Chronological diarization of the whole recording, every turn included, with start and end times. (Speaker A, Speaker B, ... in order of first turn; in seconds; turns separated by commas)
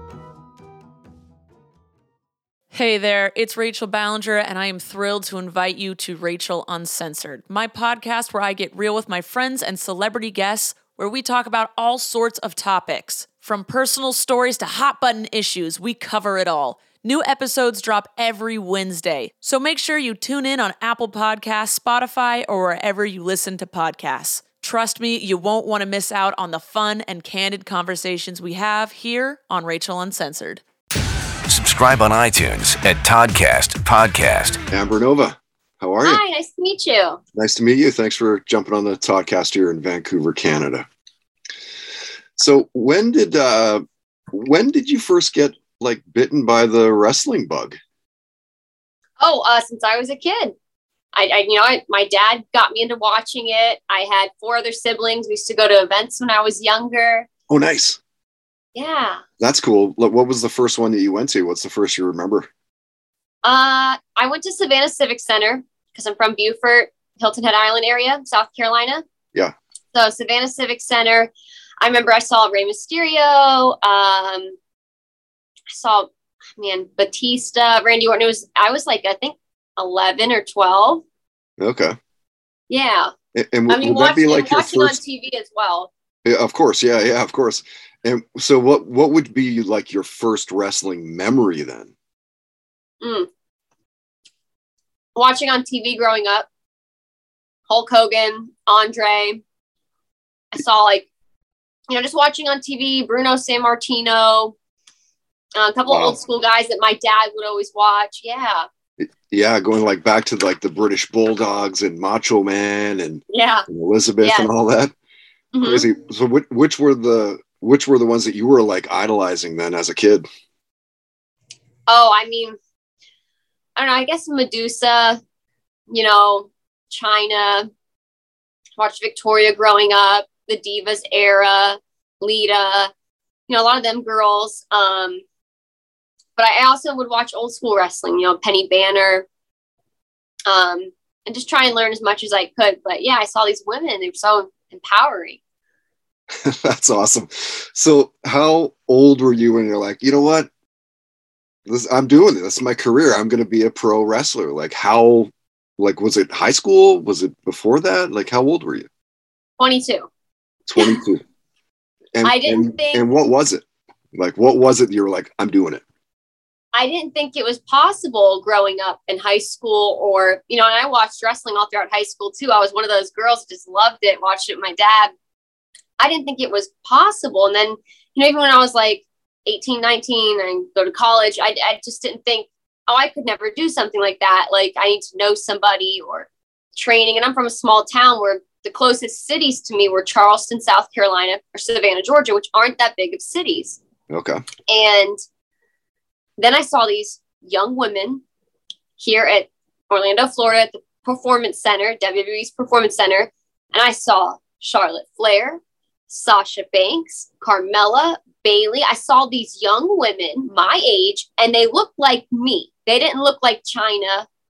Speaker A: 2.7-30.6, Speaker B: 31.5-34.6, Speaker C: 34.7-36.2, Speaker D: 36.0-37.2, Speaker C: 37.3-40.9, Speaker C: 42.4-47.8, Speaker D: 49.2-50.5, Speaker D: 51.1-57.3, Speaker C: 57.5-58.0, Speaker D: 58.7-59.2, Speaker C: 59.4-62.5, Speaker D: 63.4-69.0, Speaker D: 69.9-74.5, Speaker D: 75.7-81.0, Speaker C: 81.6-82.0, Speaker D: 82.7-83.1, Speaker C: 83.3-85.0, Speaker D: 83.7-85.9, Speaker C: 86.2-91.9, Speaker D: 93.0-93.3, Speaker D: 95.1-96.5, Speaker D: 97.7-99.4, Speaker D: 100.5-101.1, Speaker D: 101.9-104.5, Speaker D: 105.5-108.6, Speaker C: 105.9-106.2, Speaker C: 109.0-114.9, Speaker D: 113.3-113.7, Speaker D: 114.2-114.5, Speaker D: 115.5-115.8, Speaker C: 115.6-120.2, Speaker D: 121.9-122.6, Speaker D: 123.8-125.2, Speaker D: 125.9-127.7, Speaker D: 128.8-132.9, Speaker D: 133.5-135.2, Speaker D: 136.4-139.2, Speaker D: 140.5-145.4, Speaker C: 146.3-150.5, Speaker C: 151.7-158.9, Speaker D: 159.6-160.1, Speaker C: 160.7-161.2, Speaker C: 162.1-165.8, Speaker D: 162.2-163.0, Speaker D: 166.7-175.1, Speaker D: 176.0-193.8, Speaker C: 194.1-194.4, Speaker D: 194.7-195.2, Speaker D: 196.4-198.2, Speaker D: 199.0-214.3